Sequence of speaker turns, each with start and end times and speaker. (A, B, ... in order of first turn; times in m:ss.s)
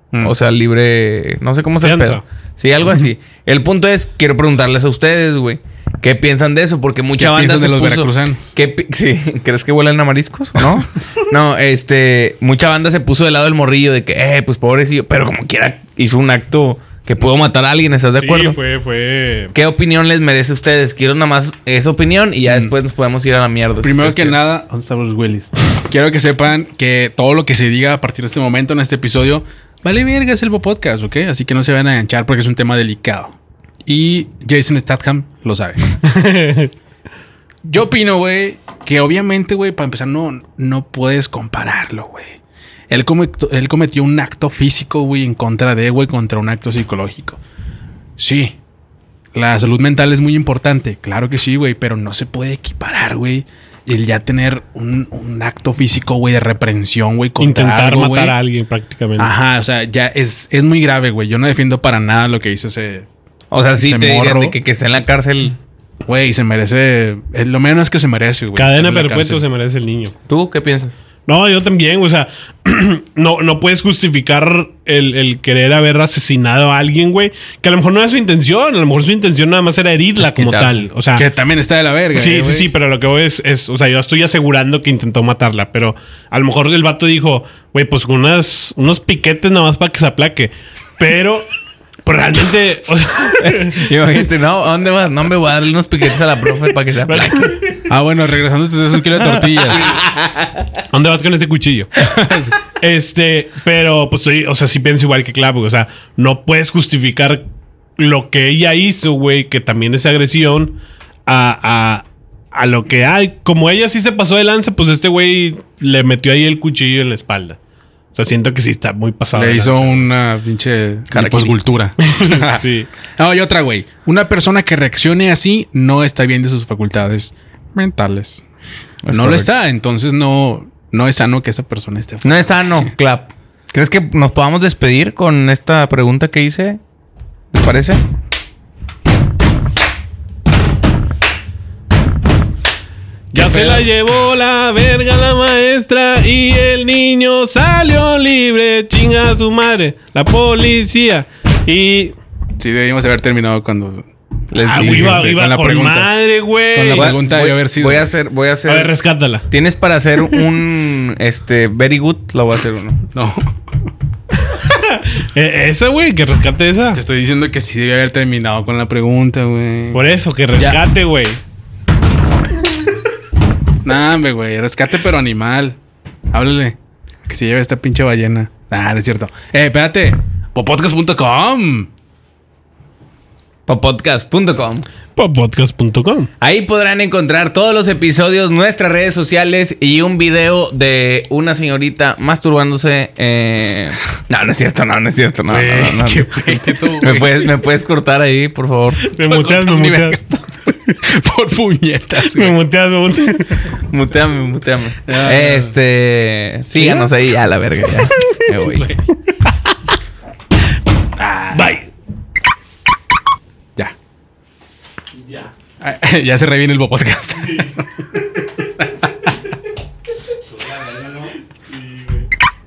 0:00.2-0:18.6 A
0:01.8-0:02.2 B
0:07.2-0:08.5 C
0:18.2-0:19.5 B
0:19.5-0:24.4 A
0:23.8-0:33.3 C
0:33.8-0:35.8 C
0:36.0-0:36.7 B
0:37.6-0:42.4 C
0:42.9-0:47.4 C
0:48.2-0:48.6 C
0:49.3-0:58.4 C
0:57.4-0:59.3 B
0:59.2-1:03.1 C
1:03.5-1:05.6 A
1:03.8-1:04.6 C
1:06.1-1:09.4 C
1:08.6-1:10.1 B
1:10.3-1:10.9 A
1:11.3-1:21.3 B
1:20.2-1:22.7 C
1:22.1-1:31.5 B
1:32.0-1:34.2 B
1:33.4-1:37.6 A
1:37.1-1:37.7 B
1:37.9-1:40.0 C
1:39.2-1:40.7 A
1:40.9-1:41.9 B
1:42.0-1:42.5 C
1:42.8-1:47.4 B
1:48.0-1:57.6 B
1:58.1-2:00.1 B
1:59.3-2:02.6 C
2:01.1-2:01.6 A
2:02.0-2:02.9 B
2:03.2-2:08.4 C
2:09.0-2:09.5 A
2:09.1-2:12.9 C
2:12.2-2:16.8 A
2:17.5-2:18.0 A
2:23.3-2:32.2 B
2:23.3-2:23.8 C
2:32.6-2:34.1 C
2:34.5-2:35.3 A
2:34.6-2:36.1 C
2:34.6-2:37.2 B
2:36.7-2:38.1 C
2:36.9-2:38.9 A
2:38.7-2:39.5 B
2:39.5-2:43.0 A
2:43.1-2:43.5 C
2:44.4-2:47.0 B
2:46.9-2:50.8 C
2:49.9-2:51.4 B
2:53.8-2:55.8 C
2:56.3-2:56.8 C
2:57.3-3:01.9 C
3:03.7-3:04.9 A
3:05.2-3:06.3 B
3:06.4-3:19.0 A
3:15.5-3:17.5 C
3:19.0-3:20.2 B
3:19.2-3:22.6 C
3:22.3-3:23.6 B
3:23.9-3:28.9 A
3:25.0-3:25.7 C
3:26.7-3:27.1 B
3:28.7-3:29.0 C
3:31.2-3:31.7 C
3:31.5-3:31.9 B
3:35.8-3:38.0 C
3:38.8-3:39.3 C